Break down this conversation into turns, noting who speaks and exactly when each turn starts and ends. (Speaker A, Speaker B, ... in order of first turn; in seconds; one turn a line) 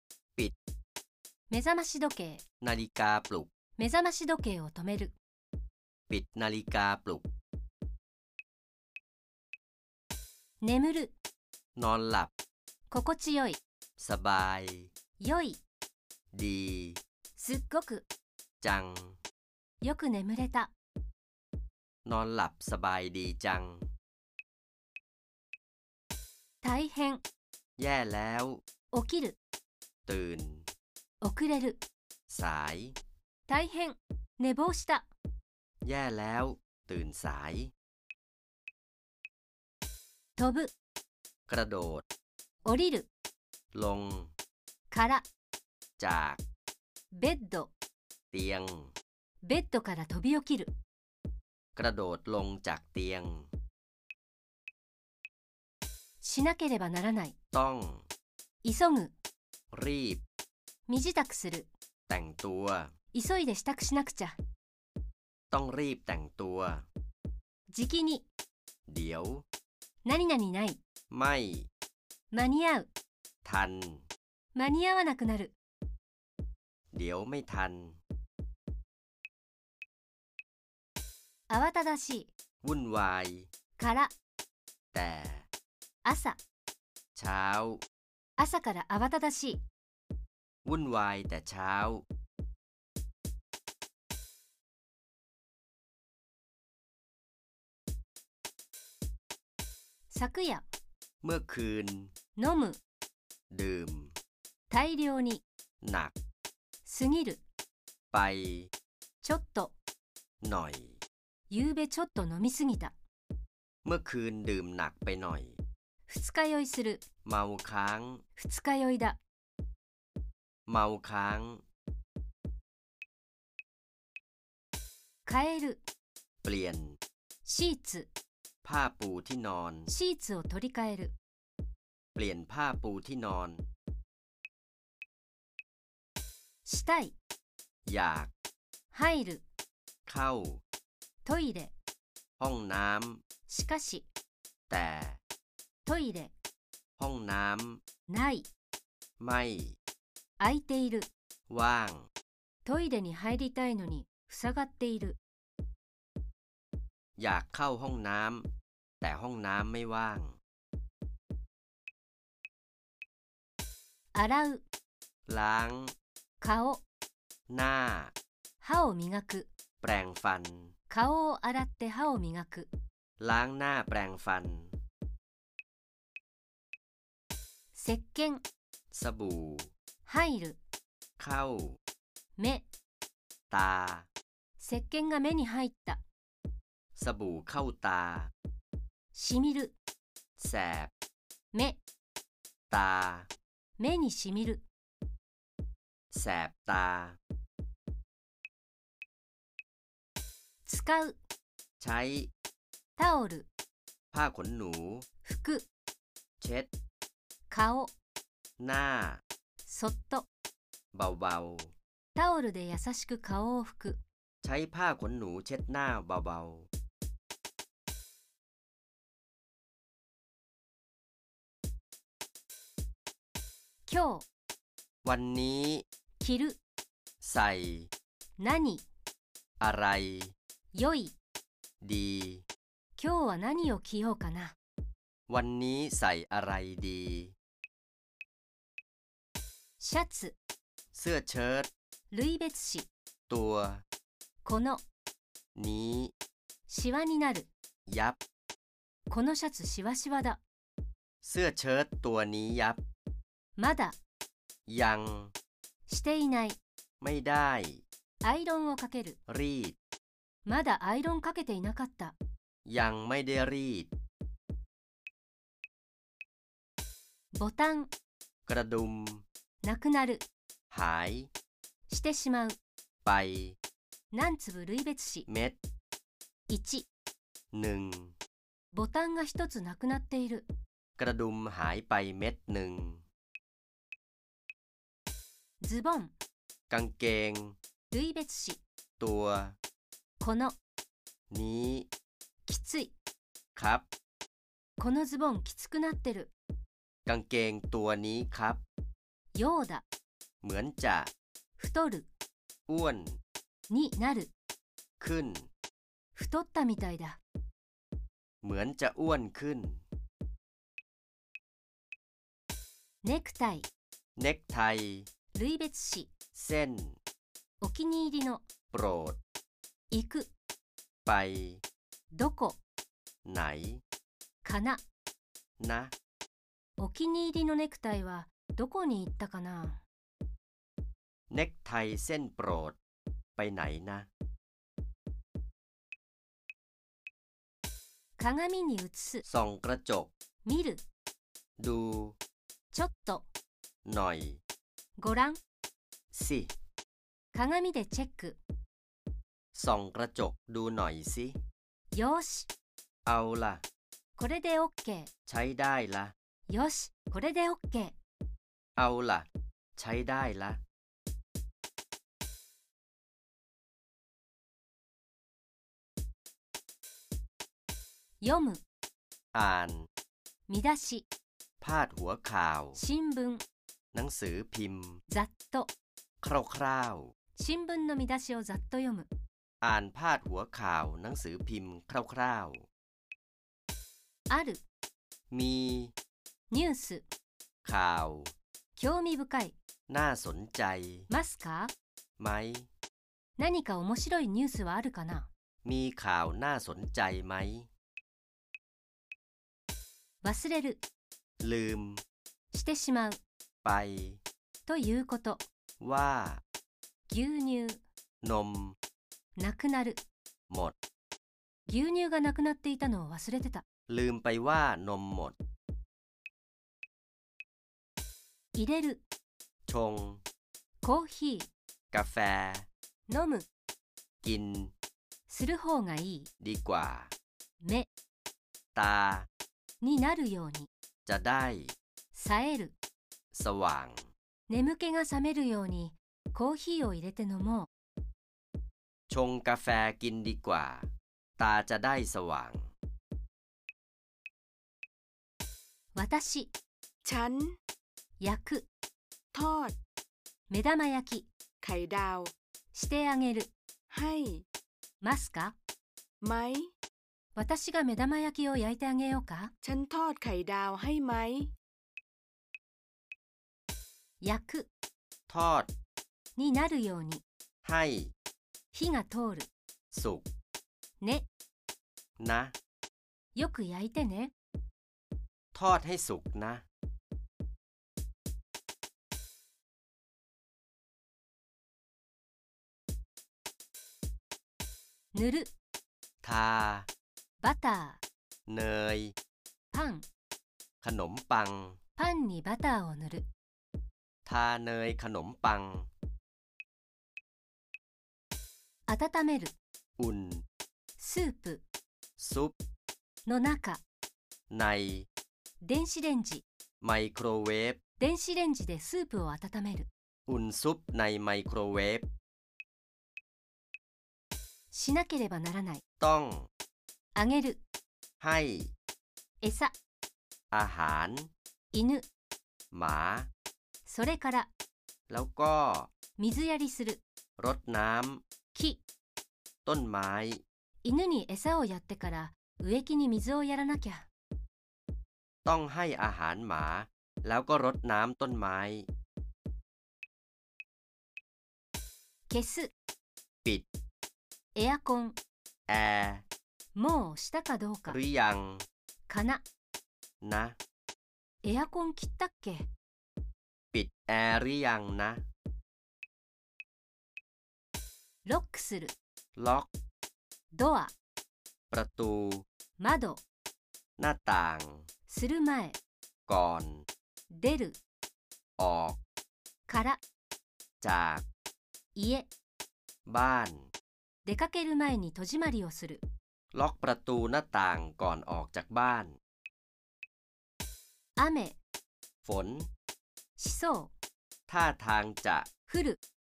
Speaker A: 1.5-2.4
Speaker B: 2.6-3.5
Speaker A: 3.8-5.1
Speaker B: 6.1-7.3
Speaker A: 10.6-11.1
Speaker B: 11.8-12.3
Speaker A: 12.9-13.6
Speaker B: 14.0-14.9
Speaker A: 15.2-15.6
Speaker B: 16.3-17.0
Speaker A: 17.4-18.1
Speaker B: 18.6-19.2
Speaker A: 19.8-20.7
Speaker B: 22.1-23.9
Speaker A: 26.6-27.2
Speaker B: 27.8-28.6
Speaker A: 28.9-29.4
Speaker B: 30.1-30.7
Speaker A: 31.2-31.8
Speaker B: 32.3-33.0
Speaker A: 33.5-35.1
Speaker B: 35.8-37.7
Speaker A: 40.4-40.7
Speaker B: 41.5-42.0
Speaker A: 42.6-43.1
Speaker B: 43.7-44.3
Speaker A: 44.9-45.2
Speaker B: 46.0-46.4
Speaker A: 47.1-47.7
Speaker B: 48.3-48.9
Speaker A: 49.4-50.7
Speaker B: 51.8-53.5
Speaker A: 56.2-57.3
Speaker B: 57.5-58.1
Speaker A: 58.6-59.1
Speaker B: 59.7-60.2
Speaker A: 60.9-61.7
Speaker B: 62.1-62.9
Speaker A: 63.1-64.4
Speaker B: 65.5-66.9
Speaker A: 67.7-68.2
Speaker B: 68.9-69.5
Speaker A: 70.0-70.8
Speaker B: 71.1-71.7
Speaker A: 72.3-72.9
Speaker B: 73.5-74.1
Speaker A: 74.5-75.5
Speaker B: 76.9-78.0
Speaker A: 81.5-82.3
Speaker B: 82.6-83.5
Speaker A: 83.8-84.1
Speaker B: 84.9-85.5
Speaker A: 86.0-86.4
Speaker B: 87.2-87.8
Speaker A: 88.4-89.6
Speaker B: 90.7-92.0
Speaker A: 100.1-100.7
Speaker B: 101.2-102.1
Speaker A: 102.4-102.8
Speaker B: 103.5-104.1
Speaker A: 104.7-105.4
Speaker B: 105.8-106.1
Speaker A: 106.8-107.4
Speaker B: 108.1-108.7
Speaker A: 109.2-109.8
Speaker B: 110.4-111.0
Speaker A: 111.5-112.9
Speaker B: 113.8-115.6
Speaker A: 116.1-117.0
Speaker B: 117.2-118.2
Speaker A: 118.4-119.2
Speaker B: 120.7-121.6
Speaker A: 125.3-125.8
Speaker B: 126.4-127.0
Speaker A: 127.5-128.1
Speaker B: 128.6-129.9
Speaker A: 129.9-131.1
Speaker B: 132.1-133.7
Speaker A: 136.7-137.1
Speaker B: 137.8-138.3
Speaker A: 138.9-139.4
Speaker B: 140.1-140.6
Speaker A: 141.2-141.7
Speaker B: 142.4-143.2
Speaker A: 143.5-144.1
Speaker B: 144.7-145.2
Speaker A: 145.8-146.3
Speaker B: 147.0-147.8
Speaker A: 148.1-148.5
Speaker B: 149.2-149.8
Speaker A: 150.4-151.1
Speaker B: 151.5-152.1
Speaker A: 152.6-155.2
Speaker B: 157.2-158.5
Speaker B: 159.0-160.4
Speaker A: 164.1-164.6
Speaker B: 165.3-165.9
Speaker A: 166.4-166.8
Speaker B: 167.5-168.1
Speaker A: 168.6-169.5
Speaker B: 169.8-170.7
Speaker A: 170.9-172.7
Speaker B: 173.2-174.8
Speaker A: 177.7-178.4
Speaker B: 178.9-179.7
Speaker A: 180.1-180.6
Speaker B: 181.2-181.8
Speaker A: 182.4-182.7
Speaker B: 183.5-184.1
Speaker A: 184.6-186.0
Speaker B: 186.9-188.3
Speaker A: 189.1-189.8
Speaker B: 190.4-190.9
Speaker A: 191.5-191.8
Speaker B: 192.7-193.3
Speaker A: 193.8-194.6
Speaker B: 196.1-197.2
Speaker A: 200.7-201.2
Speaker B: 201.8-202.3
Speaker A: 203.0-203.5
Speaker B: 204.1-205.1
Speaker A: 205.2-205.6
Speaker B: 206.4-206.7
Speaker A: 207.5-207.9
Speaker B: 208.6-209.2
Speaker A: 209.7-210.3
Speaker B: 210.9-211.7
Speaker A: 212.1-214.0
Speaker B: 214.4-216.7
Speaker A: 223.9-224.2
Speaker B: 225.0-225.8
Speaker A: 226.2-226.6
Speaker B: 227.2-227.9
Speaker A: 228.4-228.8
Speaker B: 229.6-230.3
Speaker A: 230.8-231.1
Speaker B: 231.8-232.4
Speaker A: 233.0-234.6
Speaker B: 235.3-237.3
Speaker A: 239.8-240.3
Speaker B: 240.9-241.7
Speaker A: 242.1-242.9
Speaker B: 243.3-243.8
Speaker A: 244.4-244.8
Speaker B: 245.6-246.1
Speaker A: 246.7-247.5
Speaker B: 247.9-248.2
Speaker A: 249.1-250.4
Speaker B: 251.2-252.8
Speaker A: 253.6-253.9
Speaker B: 254.7-255.3
Speaker A: 255.9-256.6
Speaker B: 257.0-257.8
Speaker A: 258.2-259.2
Speaker B: 259.3-259.8
Speaker A: 260.4-262.1
Speaker B: 262.6-263.9
Speaker A: 267.3-267.9
Speaker B: 268.5-269.2
Speaker A: 269.6-270.2
Speaker B: 270.7-271.3
Speaker A: 271.9-272.6
Speaker B: 273.0-273.6
Speaker A: 274.1-275.3
Speaker B: 275.3-275.6
Speaker A: 276.5-276.9
Speaker B: 277.5-278.1
Speaker A: 278.7-280.5
Speaker B: 281.0-283.0
Speaker A: 285.6-286.1
Speaker B: 286.7-287.6
Speaker A: 287.9-288.6
Speaker B: 289.0-289.6
Speaker A: 290.2-290.6
Speaker B: 291.3-291.9
Speaker A: 292.5-292.9
Speaker B: 293.6-293.9
Speaker A: 294.8-296.3
Speaker B: 297.1-298.6
Speaker A: 299.3-299.8
Speaker B: 300.4-301.1
Speaker A: 301.6-302.1
Speaker B: 302.7-303.2
Speaker A: 303.7-304.3
Speaker B: 305.0-305.5
Speaker A: 306.1-307.2
Speaker B: 308.4-309.8
Speaker A: 313.0-313.7
Speaker B: 314.2-315.1
Speaker A: 315.3-316.1
Speaker B: 316.3-317.0
Speaker A: 317.6-318.4
Speaker B: 318.7-319.2
Speaker A: 319.9-320.3
Speaker B: 321.1-321.6
Speaker A: 322.1-322.6
Speaker B: 323.2-323.8
Speaker A: 324.4-324.8
Speaker B: 325.6-325.9
Speaker A: 326.8-329.8
Speaker B: 331.3-332.8
Speaker B: 333.4-334.1
Speaker A: 338.2-339.2
Speaker B: 339.2-340.1
Speaker A: 340.4-340.8
Speaker B: 341.6-342.2
Speaker A: 342.7-343.2
Speaker B: 343.8-344.4
Speaker A: 345.0-345.4
Speaker B: 346.1-346.5
Speaker A: 347.3-348.4
Speaker B: 349.5-351.4
Speaker A: 351.9-352.5
Speaker B: 353.1-353.6
Speaker A: 354.2-355.1
Speaker B: 355.3-356.1
Speaker A: 356.5-357.9
Speaker B: 358.8-360.6
Speaker A: 368.2-368.6
Speaker B: 369.3-369.9
Speaker A: 370.5-371.0
Speaker B: 371.6-372.8
Speaker A: 372.8-373.4
Speaker B: 373.9-375.0
Speaker A: 375.1-375.7
Speaker B: 376.2-377.1
Speaker A: 377.4-379.1
Speaker B: 379.6-382.7
Speaker A: 384.3-384.6
Speaker B: 385.3-385.9
Speaker A: 386.5-387.1
Speaker B: 387.6-388.3
Speaker A: 388.8-389.6
Speaker B: 389.9-391.1
Speaker A: 391.1-391.7
Speaker B: 392.2-392.7
Speaker A: 393.4-395.3
Speaker B: 395.6-397.7
Speaker A: 400.2-400.8
Speaker B: 401.4-402.0
Speaker A: 402.5-403.2
Speaker B: 403.6-404.2
Speaker A: 404.6-405.4
Speaker B: 405.8-406.4
Speaker A: 407.1-407.8
Speaker B: 408.2-408.8
Speaker A: 409.4-410.0
Speaker B: 410.5-410.8
Speaker A: 411.7-413.6
Speaker B: 413.9-415.4
Speaker A: 418.6-419.0
Speaker B: 419.7-420.2
Speaker A: 420.8-421.5
Speaker B: 421.9-422.7
Speaker A: 423.1-423.4
Speaker B: 424.2-424.7
Speaker A: 425.3-426.3
Speaker B: 426.4-427.1
Speaker A: 427.6-427.9
Speaker B: 428.8-429.3
Speaker A: 429.8-430.7
Speaker B: 431.1-431.8
Speaker A: 432.1-432.7
Speaker B: 433.3-434.1
Speaker A: 434.5-437.7
Speaker B: 439.1-442.7
Speaker A: 445.9-446.5
Speaker C: 447.0-447.6
Speaker A: 448.2-448.6
Speaker C: 449.3-449.8
Speaker A: 450.5-451.3
Speaker C: 451.6-452.3
Speaker A: 452.7-453.5
Speaker C: 453.9-454.4
Speaker A: 455.0-455.6
Speaker C: 456.2-456.7
Speaker A: 457.4-459.5
Speaker C: 459.6-461.5
Speaker A: 464.2-464.7
Speaker B: 465.3-465.7
Speaker A: 466.4-467.2
Speaker B: 467.6-468.1
Speaker A: 468.7-469.5
Speaker B: 469.9-470.3
Speaker A: 471.0-471.2
Speaker B: 472.2-472.5
Speaker A: 473.3-474.3
Speaker B: 475.5-476.6
Speaker A: 485.1-485.5
Speaker B: 486.2-486.9
Speaker A: 487.4-488.0
Speaker B: 488.5-489.1
Speaker A: 489.7-490.1
Speaker B: 490.8-491.8
Speaker A: 492.0-493.2
Speaker B: 494.2-495.9
Speaker A: 498.9-499.5
Speaker B: 500.0-500.4
Speaker A: 501.0-501.6
Speaker B: 502.2-502.6
Speaker A: 503.2-503.8
Speaker B: 504.5-505.1
Speaker A: 505.6-506.4
Speaker B: 506.8-507.8
Speaker A: 508.0-509.9
Speaker B: 510.3-512.1
Speaker A: 514.7-515.8
Speaker B: 516.0-516.5
Speaker A: 517.1-517.6
Speaker B: 518.2-518.7
Speaker A: 519.4-519.7
Speaker B: 520.5-521.3
Speaker A: 521.7-522.0
Speaker B: 522.7-523.3
Speaker A: 523.9-524.5
Speaker B: 525.1-525.9
Speaker A: 526.2-527.0
Speaker B: 527.4-528.2
Speaker A: 528.5-528.8
Speaker B: 529.6-530.4
Speaker A: 530.8-534.1
Speaker B: 535.4-538.9
Speaker A: 542.3-542.7
Speaker A: 544.5-545.1
Speaker B: 545.7-546.2
Speaker A: 546.8-548.0
Speaker B: 547.9-548.6
Speaker A: 549.1-549.4
Speaker B: 550.2-550.6
Speaker A: 551.4-552.7
Speaker B: 553.7-555.3
Speaker A: 558.2-558.9
Speaker B: 559.4-559.7
Speaker A: 560.5-560.9
Speaker B: 561.7-562.5
Speaker A: 562.8-563.2
Speaker B: 564.0-564.9
Speaker A: 565.1-565.8
Speaker B: 566.3-566.9
Speaker A: 567.3-567.8
Speaker B: 568.6-569.0
Speaker A: 569.7-570.0
Speaker B: 570.8-571.2
Speaker A: 571.9-572.3
Speaker B: 573.1-573.7
Speaker A: 574.2-576.0
Speaker B: 576.5-579.2
Speaker A: 581.2-581.6
Speaker B: 582.2-582.7
Speaker A: 583.4-583.9
Speaker B: 584.5-585.5
Speaker A: 585.7-586.0